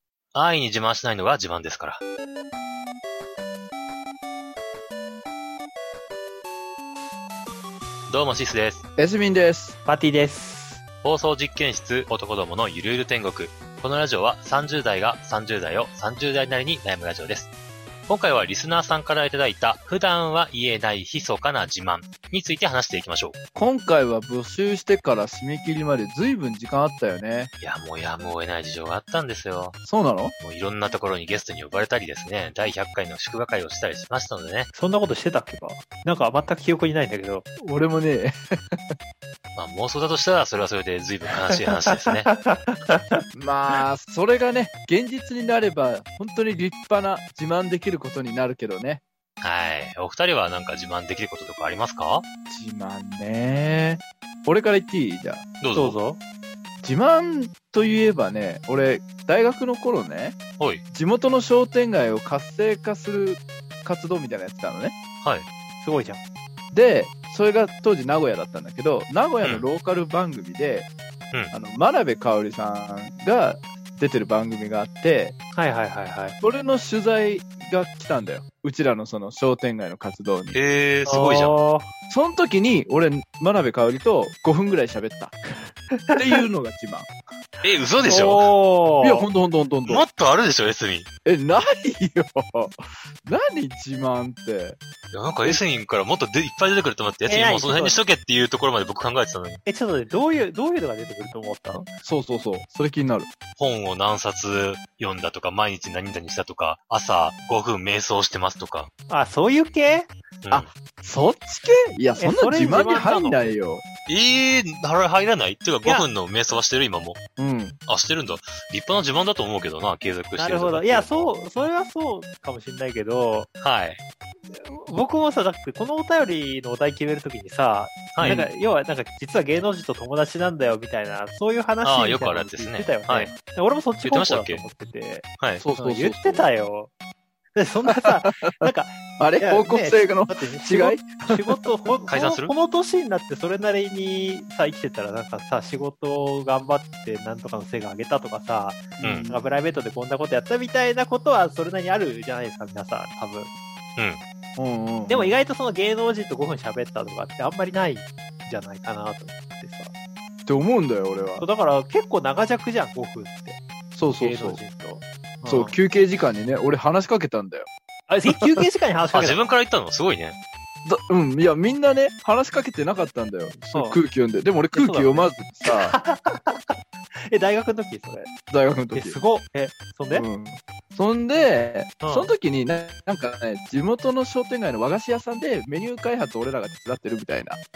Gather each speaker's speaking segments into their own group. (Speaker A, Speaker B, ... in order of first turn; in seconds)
Speaker A: 0.3-2.0, 8.1-8.8, 11.0-17.5, 18.1-23.4, 27.6-29.8, 30.4-34.7, 39.5-42.3, 49.4-52.3, 55.6-56.0, 60.6-60.8, 80.5-81.6, 87.6-88.5, 89.9-91.1, 95.1-99.6, 103.6-108.9, 110.4-110.7, 114.1-117.2, 117.9-121.3, 123.6-124.0, 128.2-128.5, 131.8-133.3, 134.0-134.6, 142.1-142.5, 149.0-149.3, 169.1-170.4
Speaker B: 9.0-9.8, 23.6-27.5, 29.8-30.3, 37.6-38.8, 43.3-49.0, 52.5-55.4, 56.8-60.4, 60.9-65.0, 66.7-70.9, 71.5-75.3, 76.4-80.6, 82.1-85.4, 86.2-87.1, 89.0-90.0, 91.2-94.8, 102.0-103.3, 110.5-113.8, 117.4-117.8, 128.2-128.5, 135.6-136.5, 137.9-138.5, 139.2-141.5, 149.0-149.4, 154.6-155.3, 160.4-161.5, 163.9-164.6, 165.5-167.7, 170.8-176.0, 178.5-179.2, 180.1-187.6
Speaker C: 9.9-10.8, 34.7-37.5, 41.5-43.2, 55.8-56.2, 65.8-66.2, 75.6-76.4, 81.1-81.9, 85.9-86.4, 88.0-89.3, 97.3-98.0, 99.7-101.9, 109.1-110.1, 112.2-113.5, 120.4-123.5, 124.5-135.3, 135.8-136.9, 137.6-153.5, 155.1-159.9, 161.4-165.8, 168.1-169.4, 173.7-174.0, 174.7-176.8, 177.3-178.3, 178.9-180.3, 182.0-182.3